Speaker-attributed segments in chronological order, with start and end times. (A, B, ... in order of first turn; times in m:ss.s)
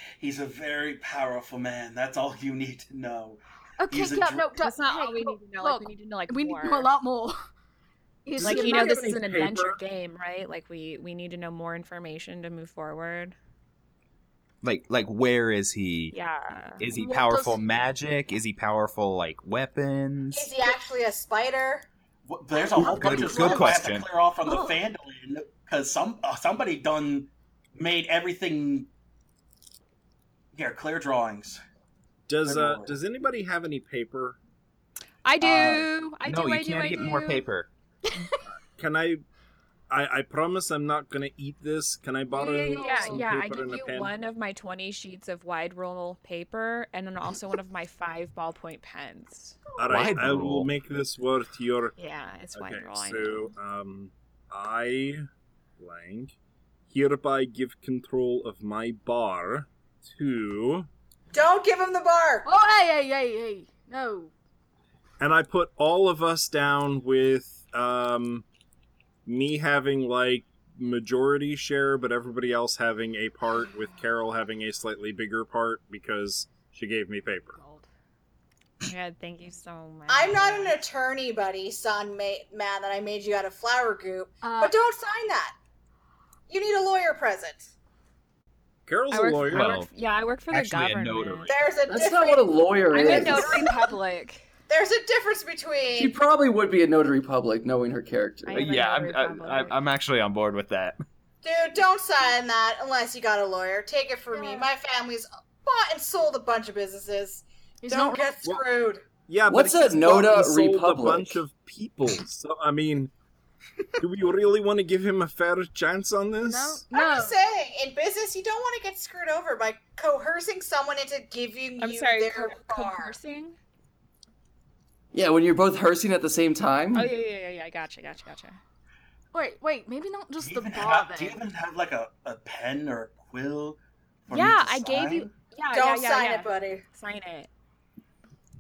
0:00.2-0:04.6 A
0:03.8-0:07.4 B
0:04.6-0:06.9 C
0:08.2-0:09.3 B
0:08.4-0:09.8 D
0:08.4-0:13.4 C
0:14.6-0:16.2 E
0:16.1-0:16.8 C
0:16.8-0:20.5 E
0:16.8-0:17.7 B
0:20.3-0:21.9 F
0:22.3-0:28.9 A
0:22.8-0:23.6 B
0:22.8-0:24.1 E
0:24.5-0:24.7 B
0:30.5-0:31.6 A
0:32.3-0:34.4 D
0:32.4-0:33.0 A
0:35.2-0:37.4 C
0:35.4-0:35.9 A
0:36.2-0:37.7 E
0:38.1-0:38.4 B
0:38.8-0:39.2 D
0:39.9-0:44.1 D
0:42.3-0:43.3 B
0:42.4-0:49.6 C
0:49.8-0:52.0 D
0:49.9-0:50.7 E
0:52.0-0:53.6 C
0:52.5-0:55.3 D
0:55.8-0:56.4 D
0:56.9-1:00.9 D
1:01.3-1:02.5 F
1:02.4-1:04.3 B
1:05.2-1:08.4 D
1:09.3-1:17.6 D
1:17.5-1:17.9 B
1:18.8-1:20.8 C
1:20.1-1:25.6 F
1:24.4-1:24.8 B
1:26.5-1:27.7 F
1:28.9-1:29.8 D
1:29.1-1:31.5 C
1:29.5-1:29.9 E
1:30.5-1:31.6 E
1:31.5-1:33.7 F
1:31.9-1:33.7 G
1:32.9-1:34.4 C
1:34.7-1:36.2 F
1:36.0-1:38.7 G
1:38.5-1:39.8 C
1:38.5-1:41.0 E
1:41.4-1:49.0 F
1:44.3-1:44.7 B
1:47.8-1:48.4 B
1:49.3-1:53.1 D
1:49.5-1:51.4 G
1:54.0-1:56.8 D
1:56.4-1:57.4 B
1:56.9-2:03.2 F
2:01.8-2:03.6 C
2:05.1-2:07.1 G
2:06.9-2:08.6 C
2:09.3-2:11.4 B
2:10.4-2:15.3 A
2:14.3-2:17.5 C
2:15.7-2:16.8 F